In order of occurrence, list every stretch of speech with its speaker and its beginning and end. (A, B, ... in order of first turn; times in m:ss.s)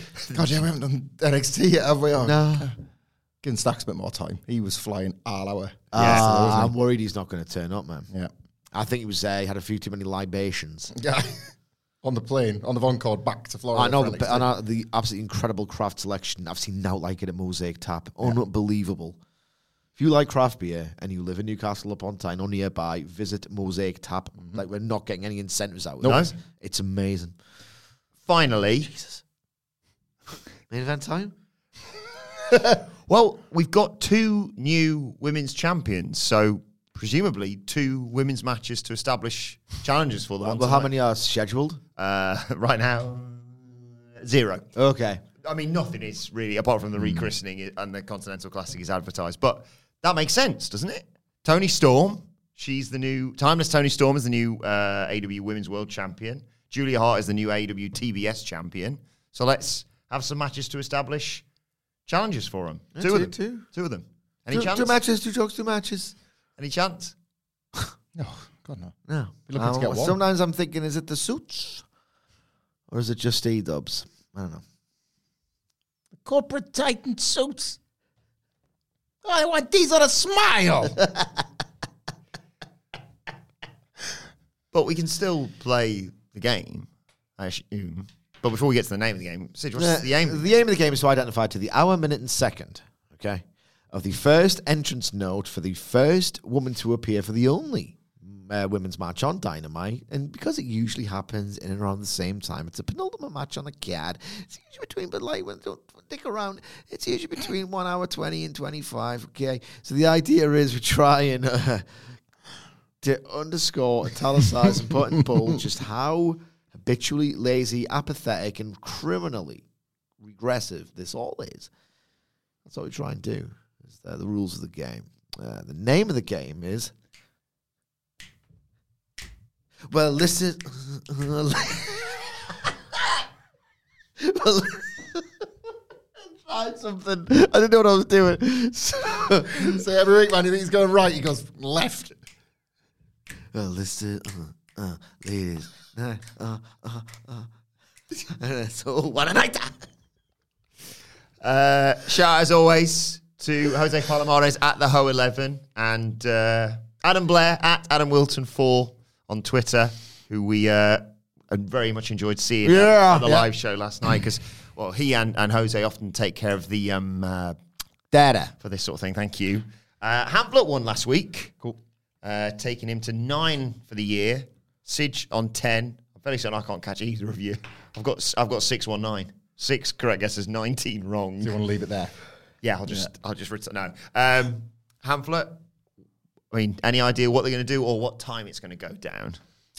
0:00.3-0:02.8 A
0:02.2-0:02.7 B
0:03.4-0:06.8 A
0:05.9-0:08.1 B
0:06.0-0:06.2 C
0:08.7-0:10.9 B
0:10.9-0:14.5 A
0:13.8-0:19.2 B
0:20.0-0:27.4 B
0:26.0-0:26.3 A
0:26.0-0:26.3 C
0:28.2-0:28.9 C
0:28.9-0:29.2 B
0:30.7-0:31.3 B
0:33.1-0:40.9 C
0:40.4-0:41.8 B
0:42.0-0:44.7 C
0:44.8-0:45.2 B
0:45.4-1:01.4 C
0:47.0-0:47.2 A
1:02.1-1:05.0 C
1:03.0-1:03.6 B
1:04.5-1:06.1 B
1:06.6-1:07.1 C
1:08.1-1:09.0 A
1:09.1-1:11.8 B
1:09.5-1:10.2 A
1:12.9-1:14.6 B
1:16.2-1:17.8 A
1:19.2-1:21.0 A
1:24.7-1:30.4 C
1:29.8-1:51.9 B
1:53.0-1:59.6 B
1:55.2-1:55.6 A
2:00.2-2:01.7 B
2:02.7-2:06.9 B
2:09.9-2:12.4 B
2:14.2-2:15.2 B
2:16.3-2:19.8 B
2:19.6-2:22.2 A
2:23.5-2:27.5 B
2:28.2-2:29.9 B
2:31.4-2:47.6 C
2:42.6-2:43.5 B
2:48.1-2:48.5 B
2:48.6-2:51.5 C
2:52.2-3:01.6 C
3:01.4-3:02.1 A
3:02.6-3:05.6 C
3:06.5-3:09.4 C